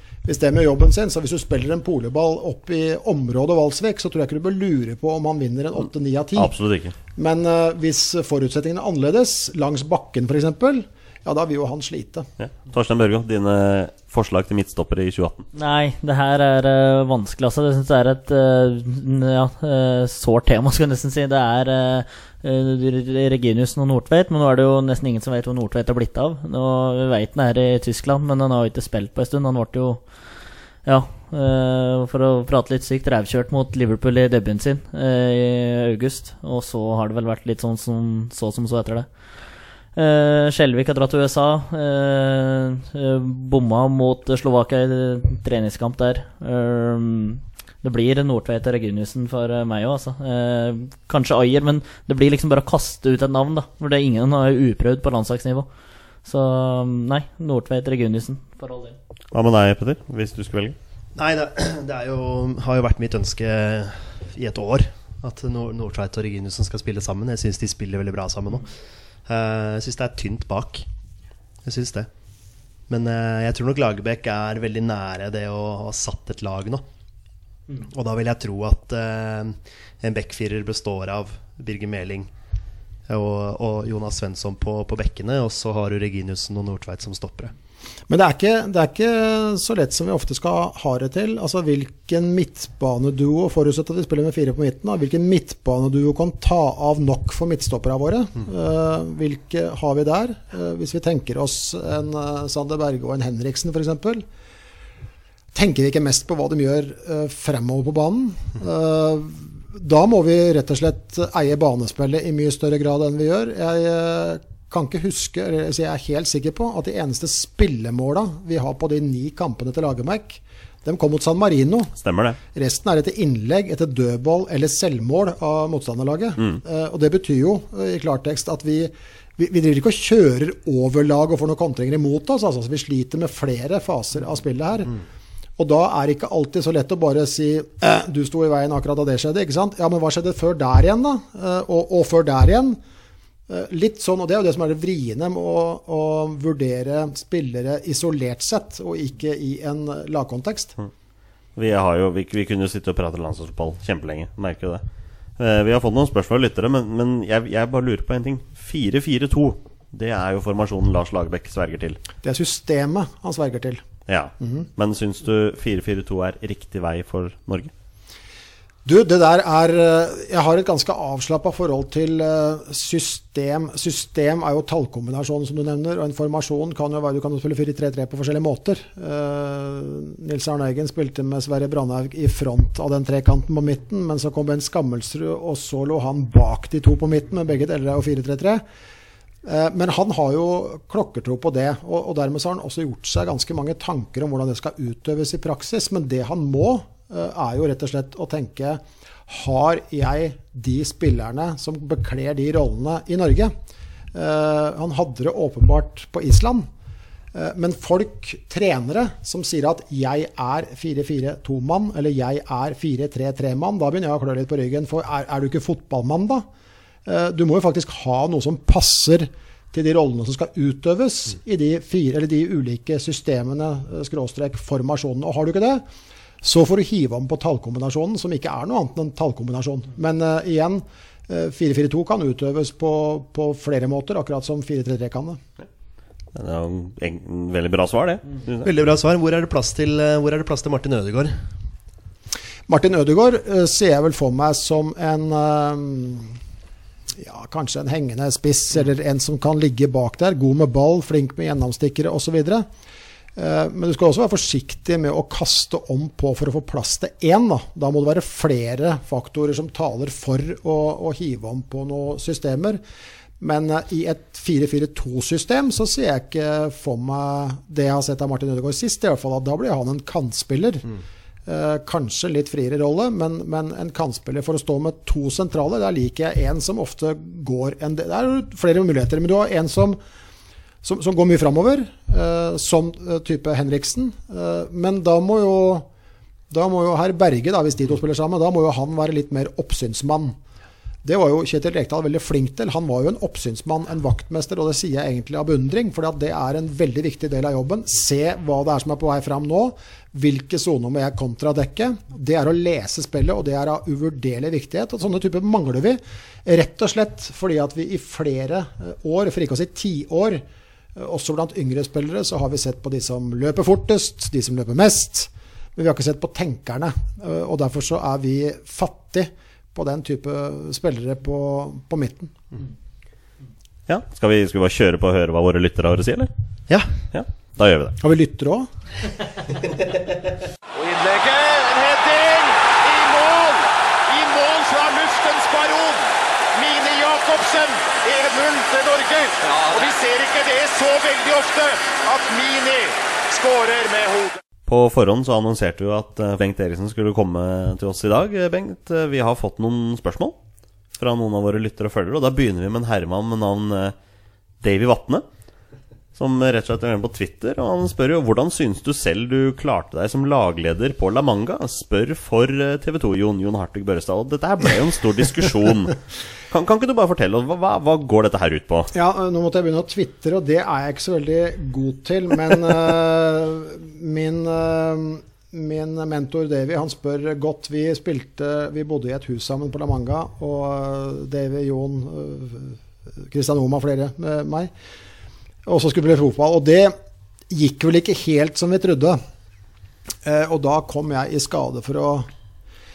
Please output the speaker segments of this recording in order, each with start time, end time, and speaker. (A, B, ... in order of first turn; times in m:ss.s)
0:00.2-0:06.5 A
0:06.4-0:06.9 B
0:07.1-0:12.3 A
0:12.4-0:15.4 B
0:15.5-0:30.0 C
0:30.8-0:39.1 C
0:40.0-0:55.7 C
0:56.2-0:59.0 C
0:59.3-1:00.8 B
1:01.2-1:08.7 D
1:09.2-1:10.8 D
1:11.6-1:12.1 D
1:12.9-1:16.8 D
1:17.8-1:22.3 D
1:23.1-1:27.5 D
1:28.1-1:44.2 A
1:45.5-2:01.9 A
2:02.0-2:02.4 B
2:02.5-2:15.0 A
2:15.6-2:22.8 A
2:23.5-2:30.7 A
2:31.6-2:34.8 B
2:35.4-2:42.0 B
2:42.2-2:43.8 A
2:44.1-2:47.7 B
2:44.4-2:44.7 A
2:48.8-3:08.6 A
3:09.4-3:23.5 A
3:24.1-3:26.7 A
3:27.3-3:36.4 A
3:37.0-3:45.8 A
3:46.4-3:55.4 A
3:56.3-3:58.7 B
3:58.6-4:01.4 D
4:02.7-4:06.4 A
4:07.1-4:12.7 A
4:13.4-4:22.8 A
4:23.4-4:30.9 A
4:31.4-4:40.0 A
4:40.8-4:45.9 A
4:46.5-4:50.4 A
4:51.0-5:10.4 A
5:10.9-5:22.3 A
5:23.9-5:26.3 B
5:27.1-5:28.0 B
5:28.0-5:28.7 A
5:30.7-5:44.4 E
5:44.7-5:50.3 B
5:51.0-5:53.9 B
5:54.6-5:55.2 B
5:56.2-6:08.9 B
6:08.9-6:24.7 A
6:25.6-6:26.9 A
6:27.5-6:29.2 A
6:30.2-6:32.3 A